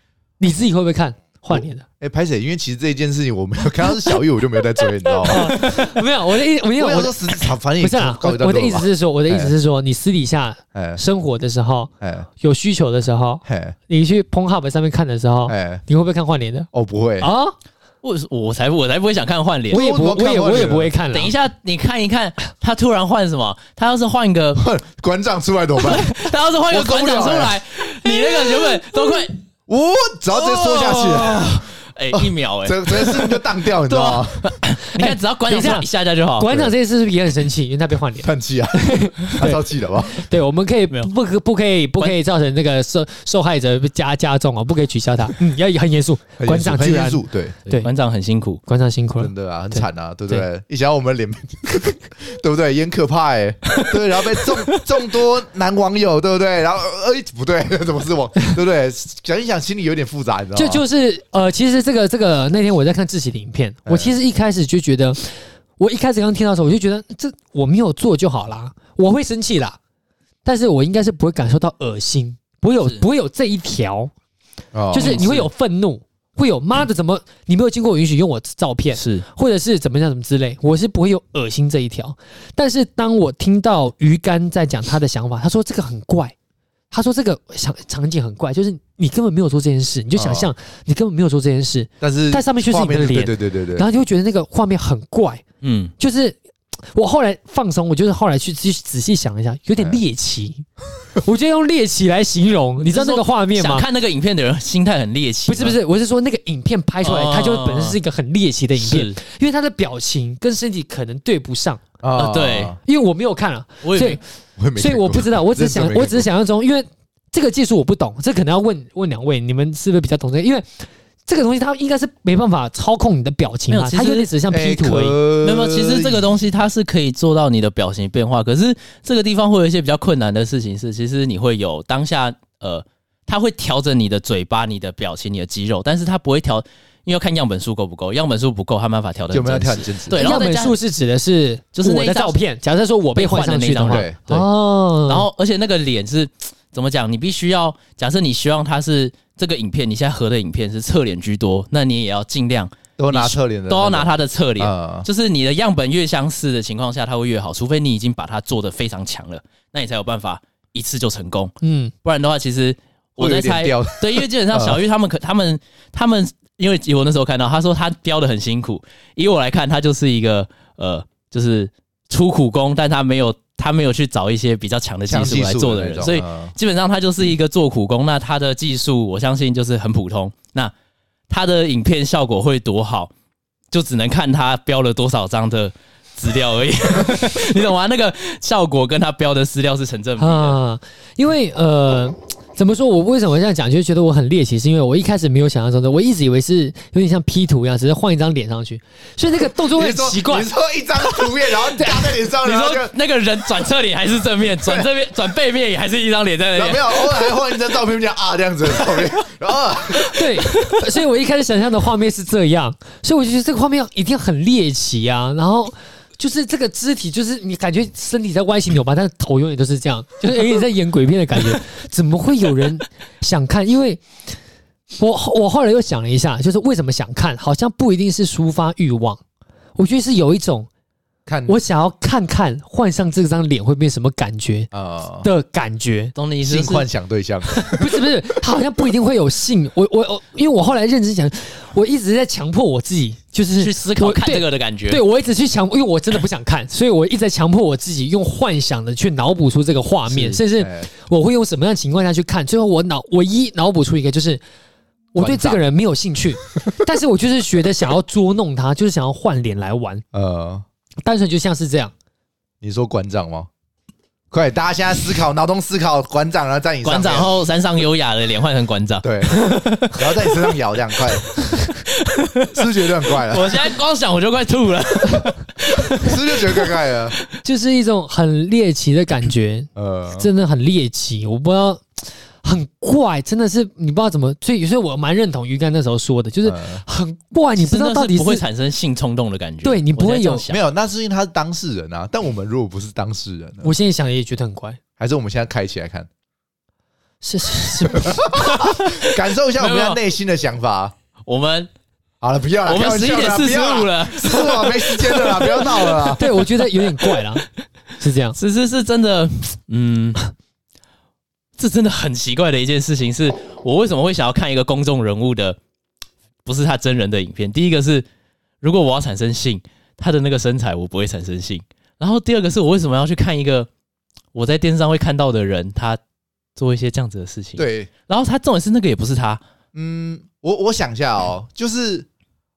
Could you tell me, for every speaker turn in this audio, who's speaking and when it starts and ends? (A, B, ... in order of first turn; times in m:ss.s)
0:00.4-0:01.8 A
0:01.5-0:05.8 B
0:05.2-0:16.7 A
0:06.8-0:09.5 B
0:10.7-0:11.0 B
0:12.0-0:12.3 B
0:13.4-0:13.7 B
0:15.5-0:15.8 B
0:16.7-0:17.3 B
0:17.2-0:17.6 A
0:18.0-0:19.8 C
0:19.7-0:20.9 B
0:19.7-0:21.3 A
0:21.1-0:24.6 C
0:24.5-0:27.6 B
0:25.8-0:29.4 C
0:29.7-0:34.5 B
0:30.4-0:36.6 C
0:34.9-0:47.9 A
0:38.2-0:40.2 B
0:46.4-0:47.6 B
0:47.7-0:48.6 C
0:48.7-0:50.4 A
0:49.2-1:00.8 B
1:00.5-1:05.2 A
1:03.8-1:04.2 B
1:05.8-1:09.8 A
1:10.4-1:14.1 A
1:14.7-1:15.4 B
1:14.9-1:26.3 A
1:15.0-1:15.4 C
1:18.9-1:19.2 C
1:26.9-1:35.4 A
1:30.1-1:30.5 B
1:32.0-1:33.8 B
1:35.6-1:35.9 C
1:36.0-1:36.4 A
1:36.9-1:40.6 A
1:41.2-1:43.8 A
1:42.8-1:45.8 C
1:45.5-1:51.8 A
1:47.0-1:48.0 C
1:48.8-1:49.2 C
1:52.0-1:52.8 B
1:52.2-1:52.7 C
1:52.8-1:54.2 A
1:53.8-1:54.2 C
1:54.6-1:56.3 B
1:54.8-2:00.7 A
2:01.2-2:05.2 A
2:03.7-2:04.3 C
2:04.5-2:06.3 B
2:05.4-2:20.8 C
2:19.3-2:20.3 B
2:20.1-2:25.2 A
2:21.8-2:22.4 C
2:23.2-2:24.4 C
2:23.9-2:24.2 B
2:25.0-3:00.7 C
2:33.0-2:35.0 B
2:41.6-2:41.9 A
2:43.2-2:44.8 B
2:55.1-2:56.5 B
3:01.3-3:03.1 C
3:03.7-3:10.6 C
3:10.2-3:20.5 A
3:19.7-3:22.9 B
3:22.4-3:27.4 C
3:24.6-3:24.9 B
3:26.5-3:30.2 B
3:30.0-3:30.8 C
3:30.1-3:44.0 A
3:45.0-3:49.2 A
3:49.8-3:50.7 A
3:51.2-3:51.6 B
3:51.5-3:54.7 A
3:54.7-3:55.3 B
3:55.2-3:56.1 A
3:56.2-3:56.8 C
3:56.4-3:58.0 B
3:57.6-4:14.4 A
4:03.6-4:05.0 C
4:10.1-4:10.4 C
4:10.6-4:10.9 B
4:15.1-4:20.0 A
4:15.2-4:15.6 B
4:20.1-4:20.6 B
4:21.0-4:21.9 A
4:22.6-4:23.5 B
4:24.3-4:27.3 B
4:26.8-4:30.4 C
4:29.0-4:31.4 B
4:32.0-4:32.6 C
4:32.5-4:33.6 B
4:33.2-4:36.7 C
4:35.9-4:37.2 B
4:37.4-4:48.4 A
4:39.8-4:40.3 B
4:46.4-4:46.8 B
4:47.6-4:50.6 C
4:49.6-4:50.4 A
4:50.5-4:53.7 B
4:53.6-4:54.8 A
4:55.0-4:56.1 B
4:57.2-4:58.4 A
4:58.1-5:00.9 B
4:58.4-4:59.0 C
4:59.6-5:00.0 C
5:01.2-5:01.7 C
5:02.2-5:06.2 B
5:02.6-5:06.2 C
5:06.1-5:07.4 A
5:06.8-5:07.2 C
5:08.0-5:08.4 A
5:08.4-5:10.2 C
5:11.6-5:15.6 C
5:16.4-5:18.0 C
5:18.6-5:23.7 C
5:24.3-5:26.0 C
5:26.6-5:29.4 C
5:27.6-5:27.9 B
5:29.7-5:32.1 B